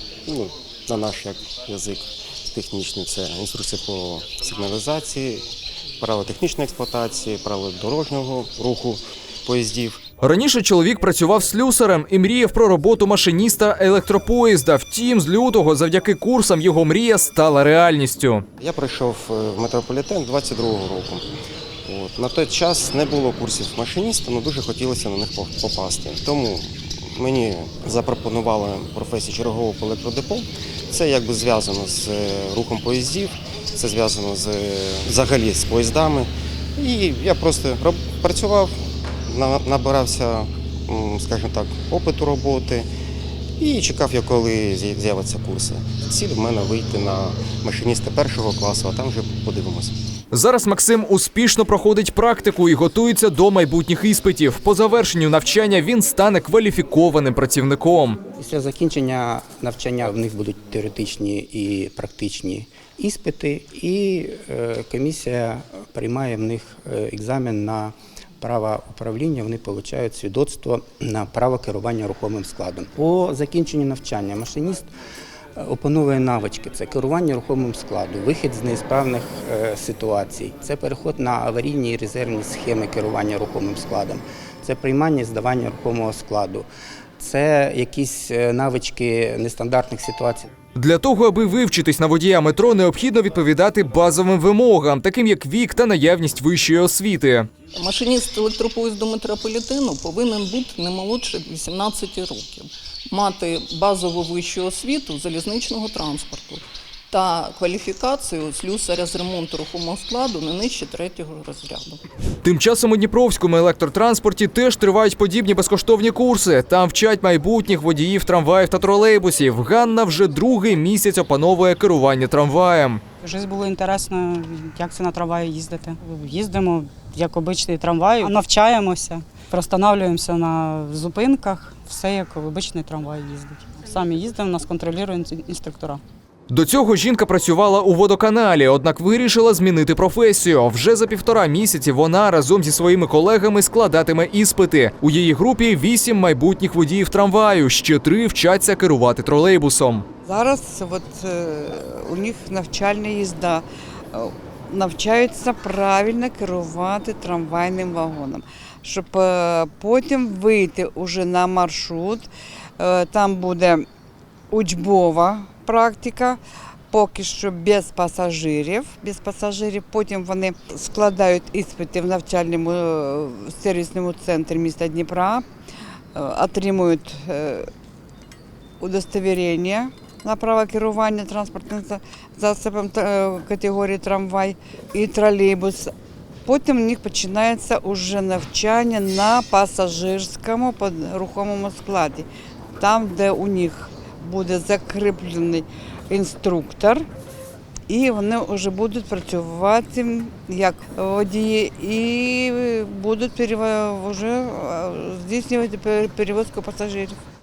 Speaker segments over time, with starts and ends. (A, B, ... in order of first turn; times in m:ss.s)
0:00.2-0:05.4 A
0:06.0-0:10.0 A
0:10.2-0:18.4 B
0:18.6-0:21.2 A
0:21.8-0:38.7 A
0:39.3-0:42.9 A
0:43.6-0:49.9 A
0:50.3-0:58.2 B
0:58.4-1:14.9 C
1:15.6-1:26.6 C
1:27.2-1:30.5 C
1:30.8-1:37.5 B
1:37.7-1:52.0 D
1:52.4-2:03.0 B
2:03.2-2:16.0 E
2:16.5-2:30.0 B
2:30.2-2:42.3 F
2:42.8-2:43.8 F
2:44.5-2:46.4 F
2:46.9-2:55.4 F
2:56.1-2:57.7 F
2:58.8-3:05.9 F
3:06.4-3:12.3 F
3:12.8-3:17.1 F
3:17.9-3:27.2 F